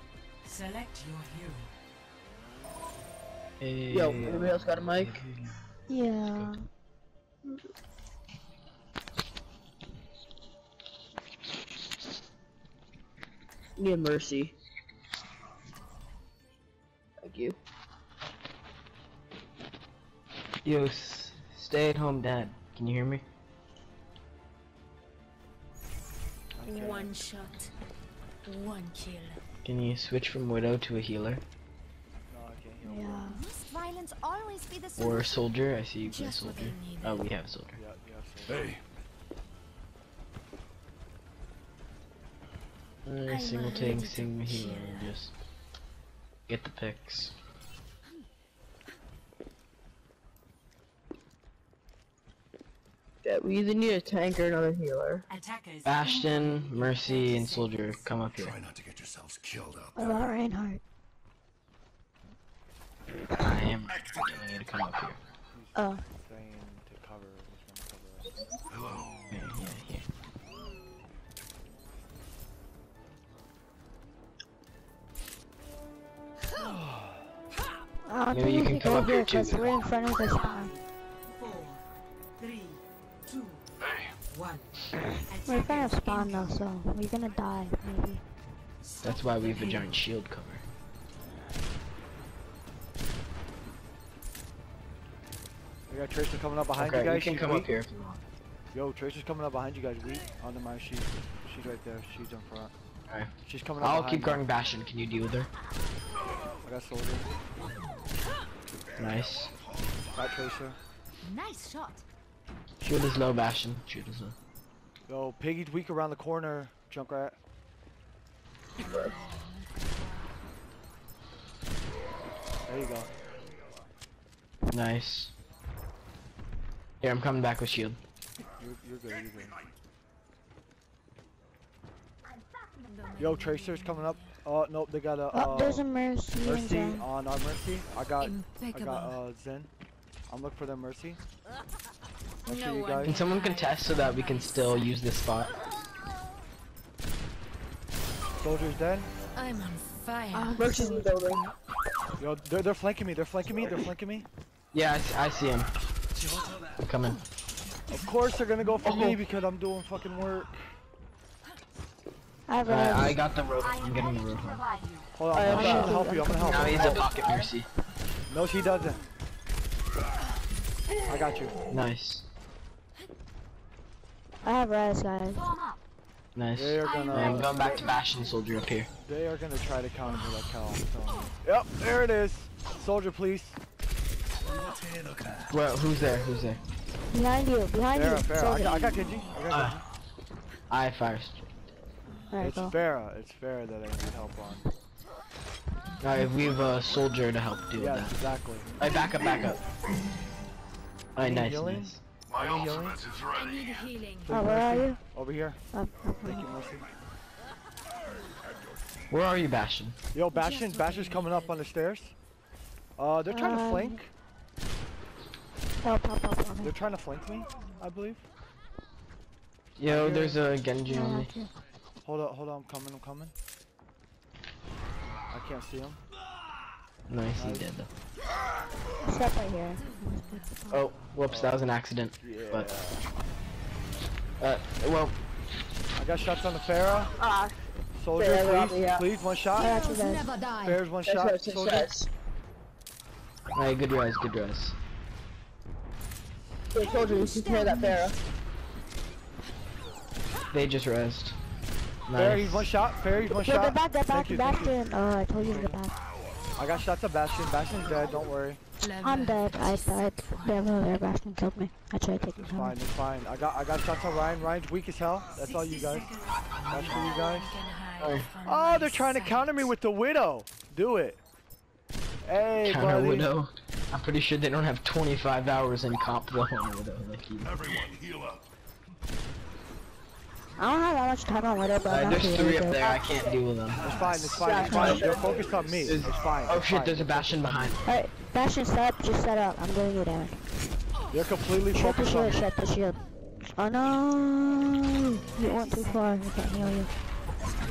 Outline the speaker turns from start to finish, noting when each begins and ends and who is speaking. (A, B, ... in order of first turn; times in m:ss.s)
0:00.4-0:01.7 A
0:03.6-0:06.5 B
0:03.9-0:05.1 C
0:05.9-0:06.6 D
0:13.8-0:14.5 C
0:17.2-0:17.6 C
0:20.6-0:23.2 B
0:26.6-0:27.2 E
0:26.6-0:27.7 F
0:28.4-0:29.4 F
0:29.6-0:31.4 B
0:32.3-0:33.4 E
0:32.8-0:33.4 D
0:33.3-0:35.5 F
0:35.0-0:37.8 B
0:36.0-0:37.3 F
0:37.7-0:38.7 E
0:38.4-0:38.8 G
0:43.0-0:45.3 B
0:43.3-0:45.1 F
0:46.5-0:47.3 B
0:53.2-0:55.2 C
0:55.3-0:58.0 A
0:55.8-0:58.6 B
0:58.2-1:00.3 G
1:00.0-1:00.8 D
1:03.4-1:05.2 B
1:05.5-1:08.4 E
1:05.8-1:06.0 D
1:08.7-1:09.4 G
1:09.3-1:10.1 B
1:16.5-1:17.3 E
1:18.1-1:20.7 D
1:18.3-1:19.7 B
1:20.2-1:21.8 A
1:22.4-1:23.7 A
1:24.2-1:26.6 A
1:25.4-1:28.2 D
1:28.8-1:30.0 A
1:29.0-1:30.6 B
1:35.9-1:37.7 E
1:36.8-1:38.2 B
1:38.7-1:42.7 E
1:43.1-1:45.5 B
1:43.4-1:44.4 E
1:46.6-1:47.3 E
1:49.0-1:49.5 B
1:50.1-1:50.8 E
1:51.2-1:52.0 F
1:52.8-1:54.4 B
1:55.0-1:57.4 E
1:58.8-2:00.4 F
1:58.8-1:59.1 C
2:02.6-2:03.1 E
2:04.7-2:05.3 B
2:07.0-2:08.0 B
2:08.6-2:09.6 E
2:12.8-2:14.4 F
2:13.2-2:15.8 E
2:15.3-2:17.1 D
2:16.4-2:19.7 E
2:18.2-2:19.2 F
2:20.3-2:21.2 E
2:22.4-2:23.2 E
2:22.5-2:25.0 F
2:23.0-2:25.5 B
2:28.4-2:29.1 E
2:29.3-2:31.5 F
2:30.3-2:31.0 D
2:30.6-2:31.4 C
2:32.2-2:34.3 E
2:34.7-2:35.7 B
2:36.8-2:37.2 B
2:37.9-2:40.7 E
2:42.5-2:43.2 D
2:42.6-2:44.6 B
2:45.2-2:47.1 E
2:45.3-2:46.0 C
2:45.4-2:46.9 D
2:45.4-2:47.7 B
2:46.6-2:47.4 C
2:48.3-2:49.0 E
2:51.1-2:51.6 E
2:51.7-2:52.2 B
2:54.4-2:55.5 D
2:56.3-2:58.9 B
2:56.5-2:57.9 E
2:59.0-3:03.6 E
3:04.4-3:05.5 G
3:05.5-3:06.6 B
3:07.1-3:09.1 D
3:07.9-3:09.8 E
3:09.5-3:09.8 B
3:10.7-3:11.4 B
3:12.3-3:12.8 D
3:12.4-3:14.7 E
3:16.0-3:18.2 B
3:17.8-3:18.7 E
3:18.8-3:19.6 B
3:21.2-3:22.0 B
3:21.2-3:23.0 E
3:22.3-3:23.5 G
3:23.2-3:24.3 F
3:24.2-3:25.6 E
3:24.3-3:25.0 D
3:25.7-3:26.5 D
3:26.2-3:26.9 E
3:29.1-3:30.0 B
3:30.1-3:32.1 E
3:30.3-3:31.7 F
3:33.0-3:34.1 E
3:33.3-3:34.0 D
3:35.8-3:36.7 D
3:36.6-3:38.2 E
3:39.8-3:41.3 B
3:39.8-3:40.4 E
3:40.9-3:41.5 D
3:42.0-3:43.3 E
3:45.3-3:46.0 E
3:47.1-3:47.9 B
3:47.4-3:47.7 E
3:49.0-3:50.4 D
3:49.7-3:51.2 F
3:50.7-3:52.7 B
3:51.2-3:51.6 E
3:52.2-3:53.0 E
3:54.4-3:55.2 B
3:56.0-3:57.1 E
3:57.2-3:57.6 C
3:57.9-3:59.9 E
3:58.2-3:59.1 C
3:59.5-4:00.8 F
3:59.6-4:00.2 C
3:59.6-4:00.1 D
4:00.5-4:01.9 E
4:01.0-4:02.1 C
4:03.5-4:04.8 B
4:06.7-4:08.2 C
4:06.8-4:08.1 F
4:10.5-4:11.4 B
4:12.1-4:12.7 B
4:12.1-4:15.8 E
4:13.4-4:15.9 D
4:16.6-4:18.6 E
4:18.8-4:20.7 F
4:19.0-4:22.8 D
4:22.2-4:26.1 E
4:25.3-4:27.2 A
4:26.7-4:27.6 E
4:26.8-4:29.7 F
4:28.0-4:28.3 B
4:28.4-4:31.2 E
4:32.2-4:33.3 E
4:32.6-4:37.6 B
4:37.4-4:38.5 G
4:40.6-4:42.9 D
4:41.8-4:44.1 B
4:43.8-4:47.8 E
4:43.8-4:46.1 G
4:44.3-4:45.7 C
4:44.7-4:45.0 D
4:44.7-4:45.1 B
4:45.8-4:47.8 B
4:47.8-4:50.3 D
4:51.1-4:52.4 E
4:51.7-4:53.0 D
4:53.5-4:56.9 D
4:55.4-4:56.0 F